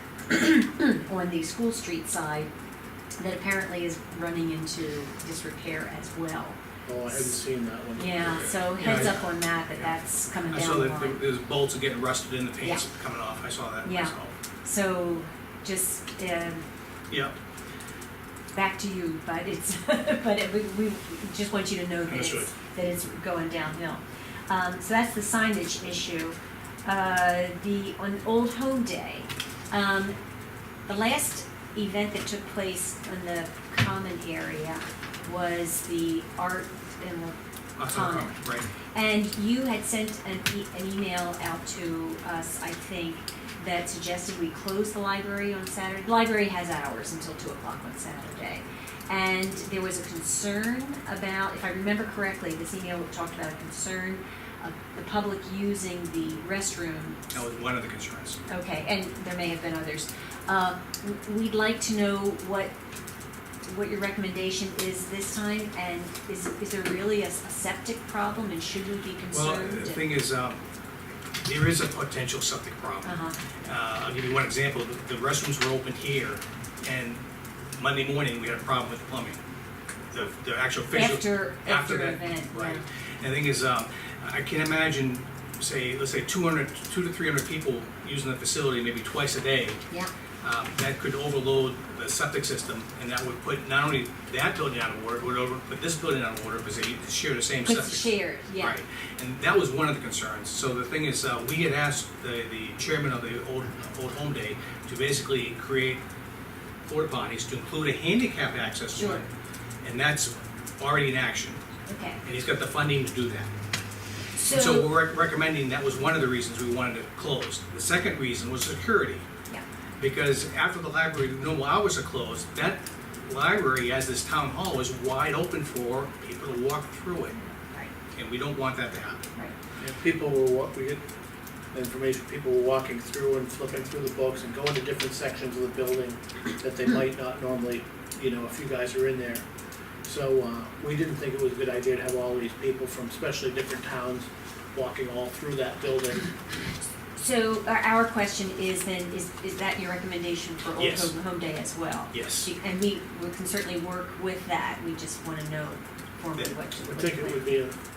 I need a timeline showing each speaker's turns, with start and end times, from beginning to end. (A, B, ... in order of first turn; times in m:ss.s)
0:00.3-0:02.5 A
0:03.2-0:06.6 A
0:06.9-0:08.5 B
0:08.0-0:11.2 A
0:08.8-0:09.2 C
0:10.5-0:14.3 C
0:12.6-0:12.9 A
0:13.8-0:16.6 A
0:18.5-0:30.1 A
0:22.1-0:22.5 C
0:30.9-0:38.4 A
0:37.8-0:38.7 C
0:38.9-0:57.3 A
0:57.3-0:58.4 C
0:58.5-1:02.7 A
1:03.7-1:10.0 A
1:09.3-1:10.6 C
1:11.4-1:17.2 C
1:13.0-1:13.4 A
1:17.8-1:19.4 C
1:20.1-1:29.8 C
1:20.9-1:22.8 A
1:30.4-1:46.0 C
1:37.6-1:38.8 A
1:46.9-1:49.3 C
1:48.9-1:49.2 A
1:49.8-1:51.6 C
1:51.9-1:52.2 A
1:52.2-1:53.5 C
1:54.4-1:54.9 A
1:54.5-1:59.2 C
2:00.0-2:07.3 C
2:07.3-2:07.9 A
2:08.1-2:09.3 C
2:09.8-2:11.0 B
2:11.7-2:19.4 B
2:20.0-2:26.3 B
2:27.2-2:37.4 A
2:30.8-2:31.1 C
2:32.1-2:32.5 C
2:36.8-2:37.8 B